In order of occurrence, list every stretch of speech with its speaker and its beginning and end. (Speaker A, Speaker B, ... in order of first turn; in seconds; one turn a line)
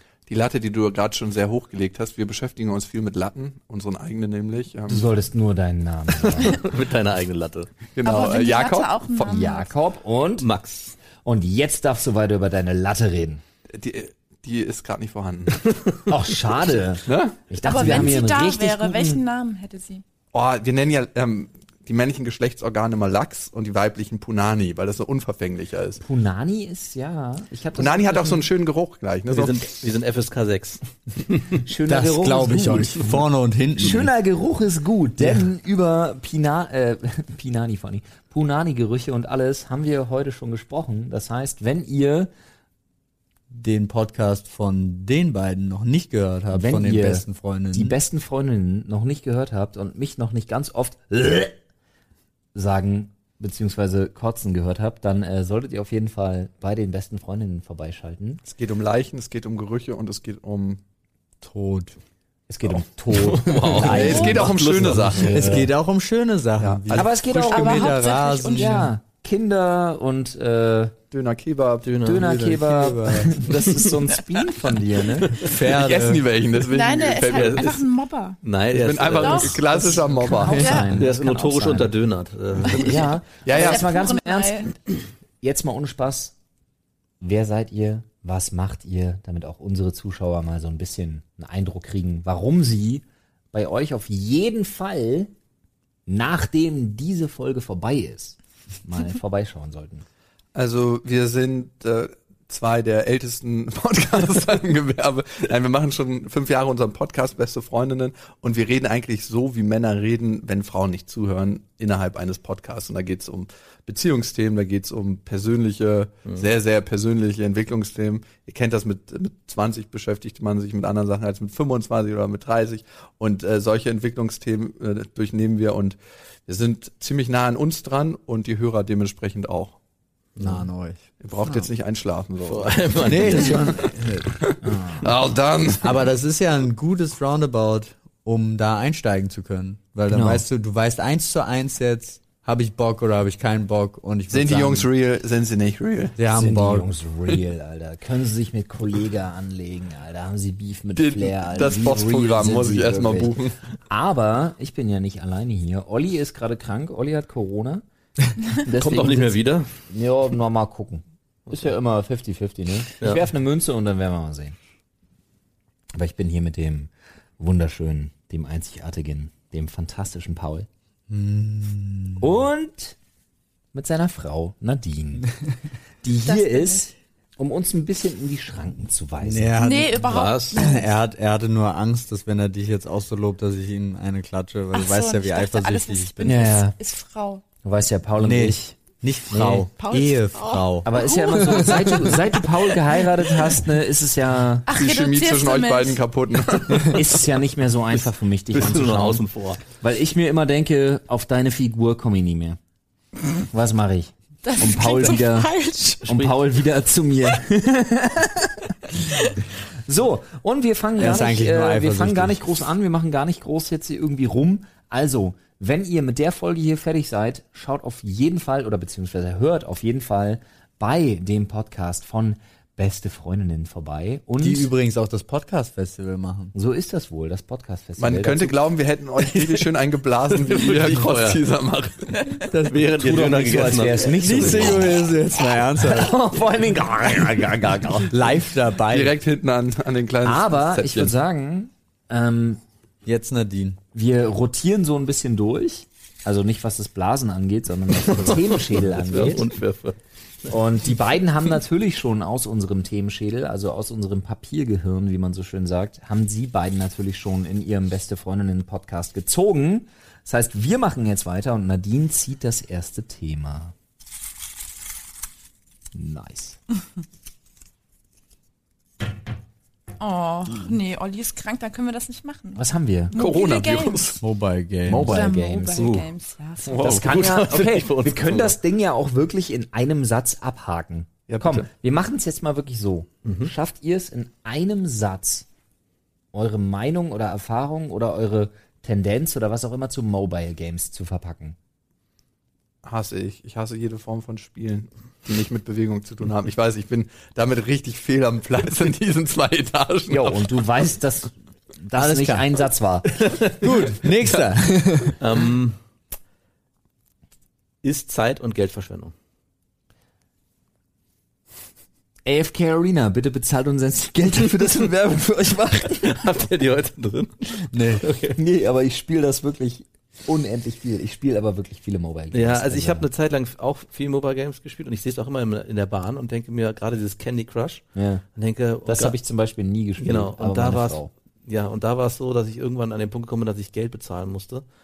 Speaker A: 0.3-5.0
Speaker B: 4.9-6.6
Speaker C: 6.3-7.7
Speaker A: 7.9-9.4
Speaker D: 8.0-9.7
Speaker B: 9.2-10.5
Speaker C: 10.4-10.9
Speaker B: 11.2-13.4
Speaker A: 13.7-15.6
Speaker B: 16.1-19.2
Speaker A: 17.1-17.4
Speaker D: 17.6-20.0
Speaker A: 20.3-26.0
Speaker B: 26.0-28.5
Speaker A: 27.8-29.7
Speaker C: 29.3-31.5
Speaker B: 31.6-33.2
Speaker E: 31.9-34.1
Speaker B: 33.8-42.3
Speaker E: 43.5-48.0
Speaker B: 46.5-51.5
Speaker B: 52.5-58.4
Speaker A: 58.4-60.8
Speaker E: 61.4-62.0
Speaker B: 62.5-65.7
Speaker C: 63.1-65.2
Speaker E: 63.7-68.9
Speaker A: 63.8-65.4
Speaker D: 64.0-64.4
Speaker A: 66.6-67.2
Speaker B: 66.9-67.9
Speaker D: 67.4-68.9
Speaker B: 68.4-70.9
Speaker A: 71.1-71.9
Speaker C: 71.8-72.3
Speaker B: 72.0-75.4
Speaker E: 72.1-73.5
Speaker E: 75.4-76.2
Speaker A: 75.5-77.8
Speaker D: 76.6-78.4
Speaker C: 77.2-77.8
Speaker C: 78.4-79.9
Speaker A: 78.7-80.8
Speaker D: 79.1-81.0
Speaker B: 79.8-81.9
Speaker C: 80.6-83.1
Speaker B: 82.6-84.7
Speaker D: 82.6-84.7
Speaker A: 83.4-83.9
Speaker B: 85.4-86.3
Speaker B: 87.2-95.3
Speaker B: 96.1-100.0
Speaker A: 100.5-129.8
Speaker C: 130.4-130.6
Speaker E: 130.4-131.7
Speaker A: 131.2-133.9
Speaker C: 132.5-133.9
Speaker E: 133.0-134.3
Speaker A: 134.4-135.9
Speaker B: 134.6-135.1
Speaker E: 135.8-144.9
Speaker B: 140.1-140.4
Speaker A: 144.3-146.2
Speaker E: 146.2-146.9
Speaker B: 146.3-157.8
Speaker A: 150.9-153.6
Speaker B: 158.5-164.6
Speaker C: 158.7-159.7
Speaker B: 165.9-170.7
Speaker E: 171.1-172.3
Speaker B: 172.2-172.9
Speaker B: 173.7-175.3
Speaker B: 176.0-179.5
Speaker D: 176.2-176.8
Speaker E: 179.2-186.3
Speaker D: 179.6-180.9
Speaker C: 180.0-180.8
Speaker D: 184.7-187.4
Speaker B: 186.2-186.8
Speaker B: 187.6-188.8
Speaker E: 188.2-192.0
Speaker B: 189.3-189.7
Speaker D: 189.7-193.4
Speaker B: 190.8-194.7
Speaker D: 194.7-196.0
Speaker A: 194.7-197.0
Speaker B: 196.9-199.2
Speaker C: 198.5-199.6
Speaker B: 199.8-202.6
Speaker B: 203.5-205.5
Speaker D: 204.4-206.1
Speaker B: 206.0-209.0
Speaker C: 206.1-206.3
Speaker B: 209.8-224.7
Speaker E: 211.0-212.4
Speaker E: 224.4-226.5
Speaker B: 226.5-228.6
Speaker A: 228.0-232.3
Speaker C: 230.3-231.4
Speaker E: 232.5-232.8
Speaker C: 232.5-234.8
Speaker B: 232.9-235.0
Speaker E: 234.2-236.1
Speaker B: 235.7-238.3
Speaker E: 237.9-239.1
Speaker A: 238.9-241.1
Speaker B: 240.2-242.6
Speaker E: 243.0-243.8
Speaker B: 243.9-249.5
Speaker C: 248.1-250.5
Speaker B: 250.5-263.7
Speaker B: 265.9-266.6
Speaker D: 270.0-274.2
Speaker B: 272.5-273.2
Speaker A: 273.1-274.2
Speaker E: 274.2-275.2
Speaker B: 274.9-276.0
Speaker D: 275.0-277.0
Speaker C: 275.7-276.1
Speaker B: 276.6-285.4
Speaker C: 276.7-278.6
Speaker A: 281.3-281.7
Speaker C: 283.2-283.5
Speaker B: 286.3-291.6
Speaker A: 292.8-300.4
Speaker B: 300.1-303.1
Speaker E: 301.9-302.6
Speaker C: 303.2-304.0
Speaker E: 303.6-305.2
Speaker C: 305.2-305.8
Speaker C: 307.8-309.1
Speaker B: 312.2-316.2
Speaker C: 315.9-318.4
Speaker E: 317.7-318.0
Speaker B: 318.3-323.1
Speaker C: 322.3-329.1
Speaker B: 327.9-328.2
Speaker B: 328.8-331.1
Speaker C: 330.0-334.6